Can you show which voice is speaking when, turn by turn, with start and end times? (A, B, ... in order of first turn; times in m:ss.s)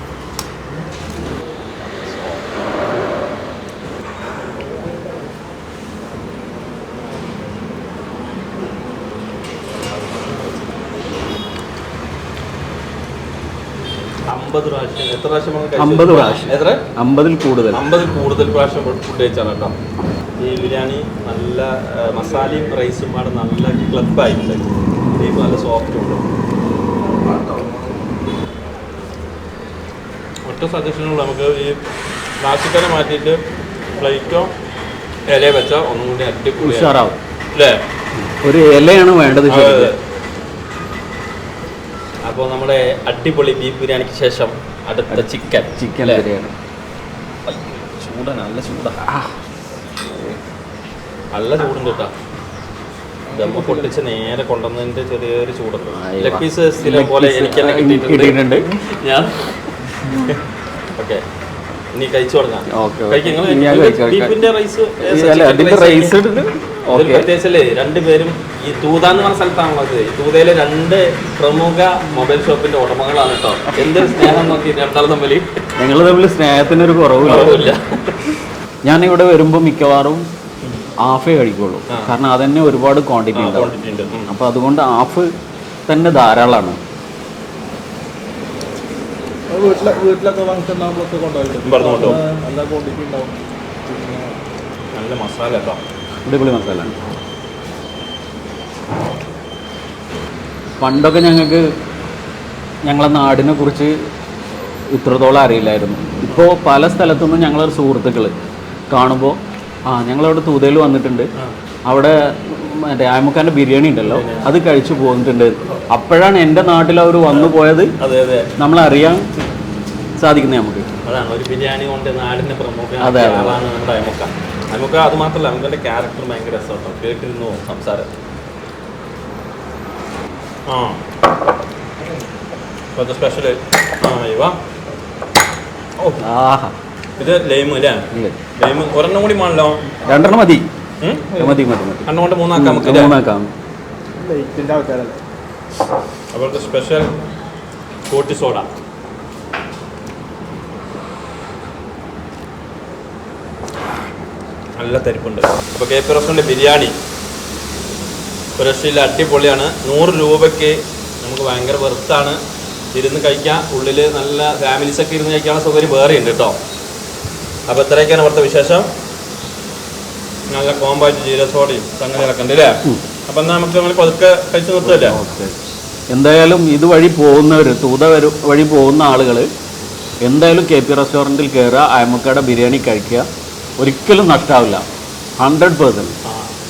0:02.0-0:02.3 A
0:14.3-0:16.8 A
0:15.8-0:17.8 B
0:17.7-0:19.7 A
0:20.4-0:26.2 A
0:30.5-0:31.8 A
0:32.4-0:33.4 A
0:34.0-0:34.5 A
0:35.3-0:36.9 A
0:36.6-0:37.2 B
0:38.2-0:39.9 B
0:39.5-0:39.9 A
0:42.3-0:46.2 A
0:45.7-0:46.5 B
0:47.5-0:49.0 A
0:51.3-0:52.1 A
0:53.3-0:53.9 C
0:53.3-0:59.5 A
0:55.9-0:58.7 B
1:01.0-1:01.2 A
1:01.9-1:06.2 A
1:02.7-1:04.4 B
1:05.0-1:07.3 B
1:06.9-1:15.4 A
1:15.8-1:17.7 B
1:17.2-1:18.2 A
1:18.8-1:20.3 B
1:21.0-1:23.7 B
1:23.3-1:24.3 A
1:24.3-1:25.3 B
1:25.9-1:26.8 B
1:29.5-1:34.4 C
1:31.6-1:32.2 A
1:35.0-1:35.8 A
1:36.2-1:36.9 B
1:40.8-1:41.7 B
1:42.8-1:44.1 B
1:44.9-1:48.3 B
1:48.9-1:51.3 B
1:51.9-1:57.9 B
1:54.0-1:54.5 A
1:57.3-1:58.5 A
1:58.6-1:59.3 B
2:00.2-2:00.9 B
2:01.0-2:08.1 A
2:03.0-2:03.6 B
2:10.7-2:11.0 A
2:12.9-2:14.6 A
2:16.2-2:16.7 B
2:17.2-2:19.8 A
2:20.0-2:20.7 B
2:21.0-2:21.3 A
2:21.3-2:23.5 B
2:22.0-2:23.1 A
2:24.2-2:25.2 C
2:26.3-2:27.1 A
2:28.1-2:28.7 A
2:34.8-2:36.9 A
2:38.6-2:42.4 A
2:42.9-2:46.6 A
2:47.7-2:48.9 A
2:50.5-2:55.2 A
2:54.8-2:55.6 B
2:56.1-2:59.5 B
3:00.2-3:03.3 B
3:03.8-3:04.8 B
3:05.4-3:06.1 B
3:06.2-3:06.5 A